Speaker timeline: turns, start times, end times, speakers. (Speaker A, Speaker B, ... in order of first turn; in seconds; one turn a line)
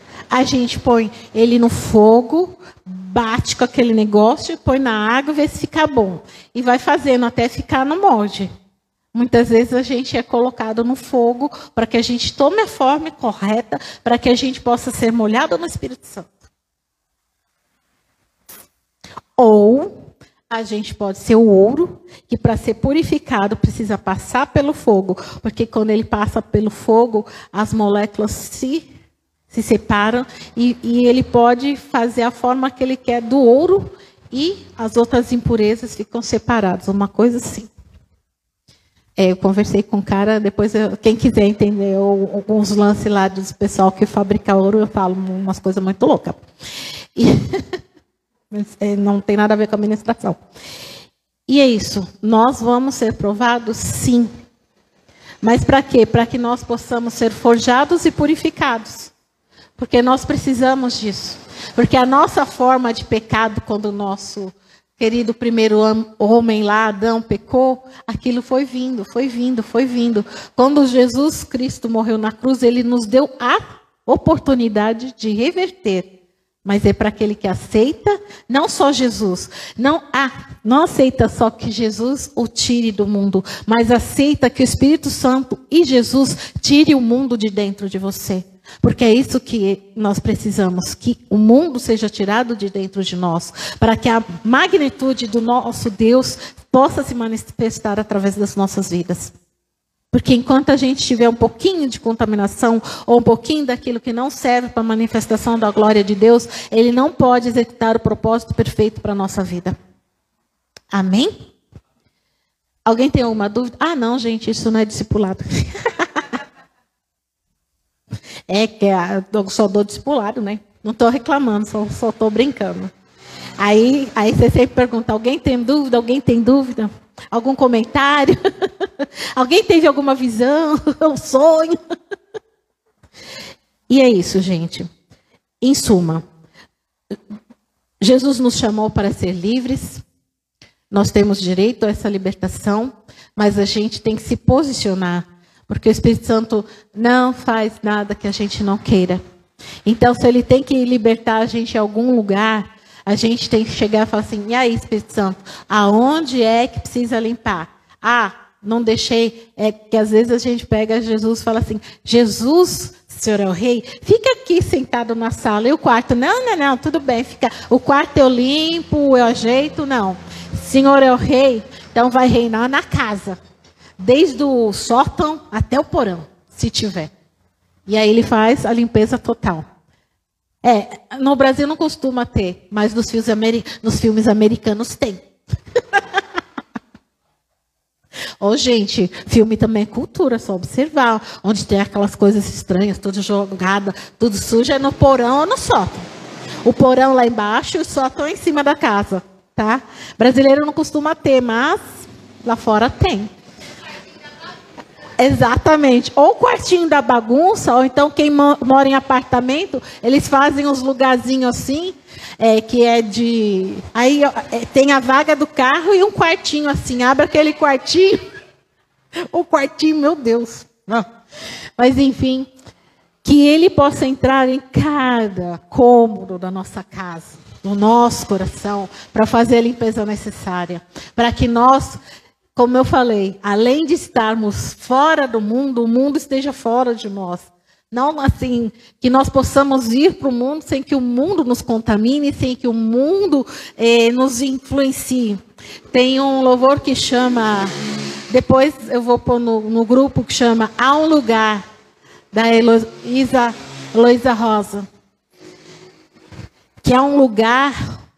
Speaker A: 0.3-8.5
Speaker A: 9.1-16.3
Speaker A: 19.4-28.9
Speaker A: 29.5-37.7
Speaker A: 39.2-46.4
Speaker A: 47.1-47.6
Speaker A: 48.5-50.4
Speaker A: 51.5-54.3
Speaker A: 55.4-59.1
Speaker A: 59.8-76.1
Speaker A: 76.6-99.3
Speaker A: 100.1-109.8
Speaker A: 110.9-111.3
Speaker A: 112.8-116.3
Speaker A: 118.5-122.9
Speaker A: 123.6-131.8
Speaker A: 133.9-134.9
Speaker A: 135.6-136.2
Speaker A: 138.0-140.0
Speaker A: 140.9-149.2
Speaker A: 149.8-173.4
Speaker A: 174.0-177.1
Speaker A: 177.9-179.6
Speaker A: 180.6-185.3
Speaker A: 188.4-196.1
Speaker A: 196.6-201.8
Speaker A: 202.4-203.3
Speaker A: 205.2-218.2
Speaker A: 219.3-221.1
Speaker A: 221.8-222.5
Speaker A: 223.2-232.0
Speaker A: 232.5-245.4
Speaker A: 245.9-247.7
Speaker A: 248.3-251.6
Speaker A: 252.3-254.9
Speaker A: 256.8-257.8